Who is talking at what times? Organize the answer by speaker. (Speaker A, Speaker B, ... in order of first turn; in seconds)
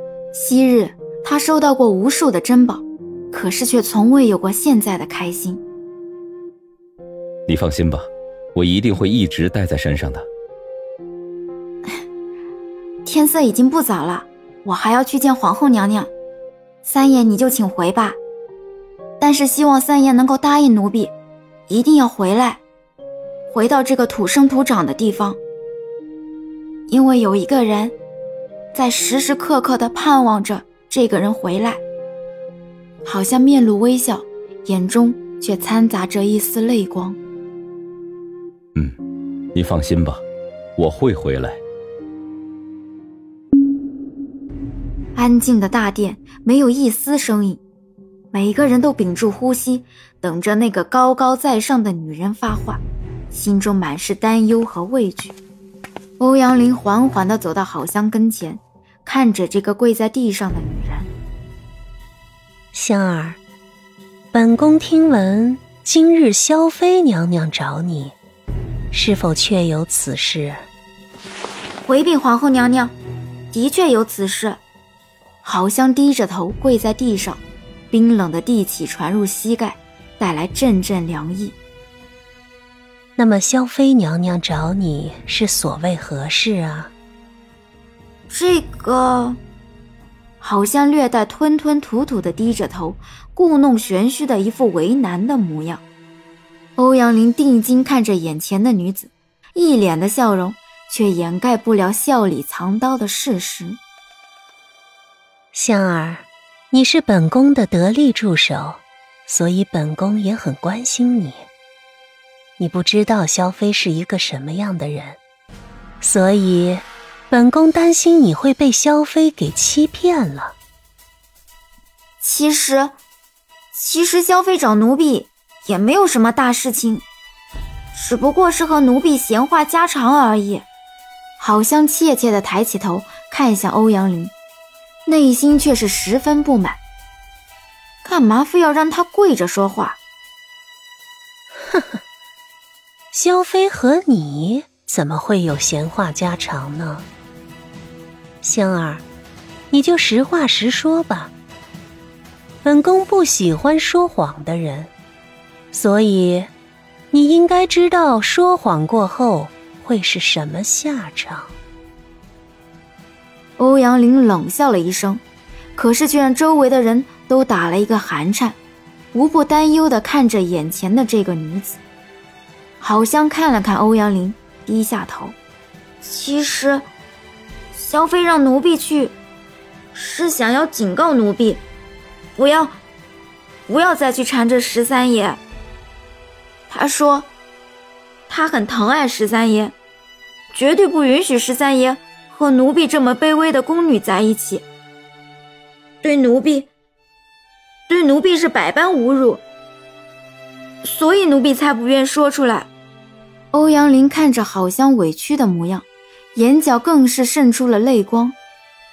Speaker A: 0.3-5.6, 13.0-16.1, 16.8-18.2, 19.2-21.1, 21.7-22.6, 23.5-25.4, 26.9-27.9, 28.7-31.8, 33.0-37.2, 45.1-47.6, 48.3-55.4, 56.2-61.1, 71.8-72.9, 73.5-74.6, 75.4-81.5, 88.3-89.4, 90.4-95.8, 96.8-103.8, 122.2-122.9, 123.7-127.0, 127.9-130.6, 131.4-134.3, 135.1-136.8, 138.0-140.0, 163.6-165.2, 165.8-168.6, 169.1-171.8, 172.8-175.3, 176.0-176.9, 177.7-179.1, 179.9-181.6, 182.3-182.8, 183.7-185.4, 186.7-187.3, 188.3-189.7, 190.5-194.7, 196.0-196.7, 197.9-199.4, 200.8-202.7, 203.5-208.3
Speaker B: 7.5-10.2, 39.5-40.2, 40.8-41.6
Speaker C: 62.7-63.4, 64.3-68.1, 68.9-70.6, 83.2-86.9, 105.5-111.5, 112.6-115.2, 116.0-120.5, 141.7-142.0, 143.1-147.0, 148.4-149.0, 149.7-151.3, 152.6-154.9, 155.7-156.5, 157.1-161.5